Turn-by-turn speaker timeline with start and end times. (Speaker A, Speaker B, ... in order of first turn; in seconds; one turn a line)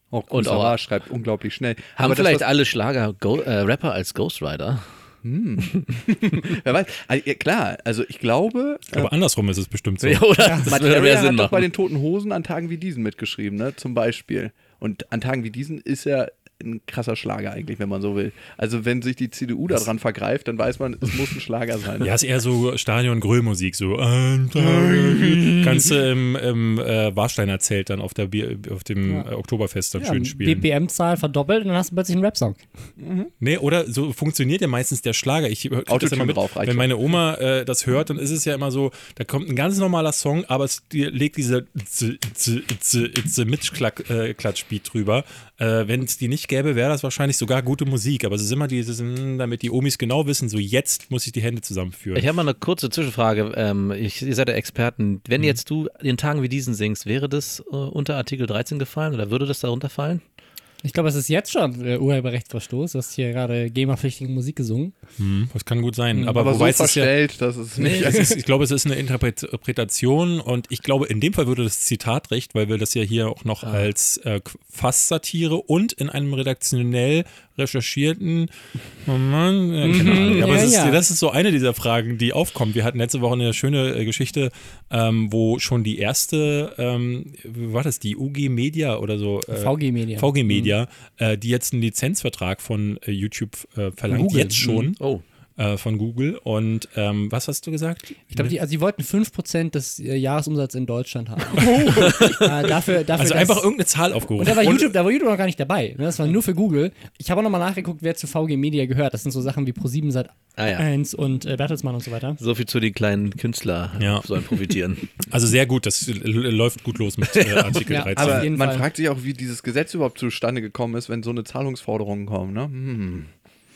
Speaker A: 0.1-2.5
Speaker B: 0.3-0.8
Speaker B: 1.9-4.9
Speaker A: 5.2-9.1
Speaker C: 8.9-10.2
Speaker B: 10.0-11.7
Speaker D: 10.4-10.7
Speaker A: 10.7-22.1
Speaker C: 22.0-30.6
Speaker A: 24.6-25.9
Speaker D: 30.0-32.6
Speaker A: 33.0-33.3
Speaker C: 33.4-52.2
Speaker A: 35.9-36.9
Speaker B: 52.1-60.2
Speaker D: 60.8-64.9
Speaker C: 65.2-67.1
Speaker D: 66.1-66.4
Speaker A: 66.3-68.3
Speaker C: 68.0-78.5
Speaker D: 68.0-68.3
Speaker B: 73.6-73.9
Speaker C: 79.0-95.0
Speaker D: 79.8-81.0
Speaker B: 80.0-80.6
Speaker D: 89.5-90.7
Speaker D: 94.1-94.6
Speaker B: 94.6-95.2
Speaker C: 95.6-98.5
Speaker D: 98.3-103.6
Speaker C: 101.5-102.3
Speaker C: 103.2-104.9
Speaker D: 104.3-112.4
Speaker B: 110.6-110.8
Speaker B: 112.4-115.1
Speaker C: 114.0-114.3
Speaker C: 115.2-118.5
Speaker B: 117.4-117.8
Speaker D: 117.9-118.8
Speaker A: 118.1-123.3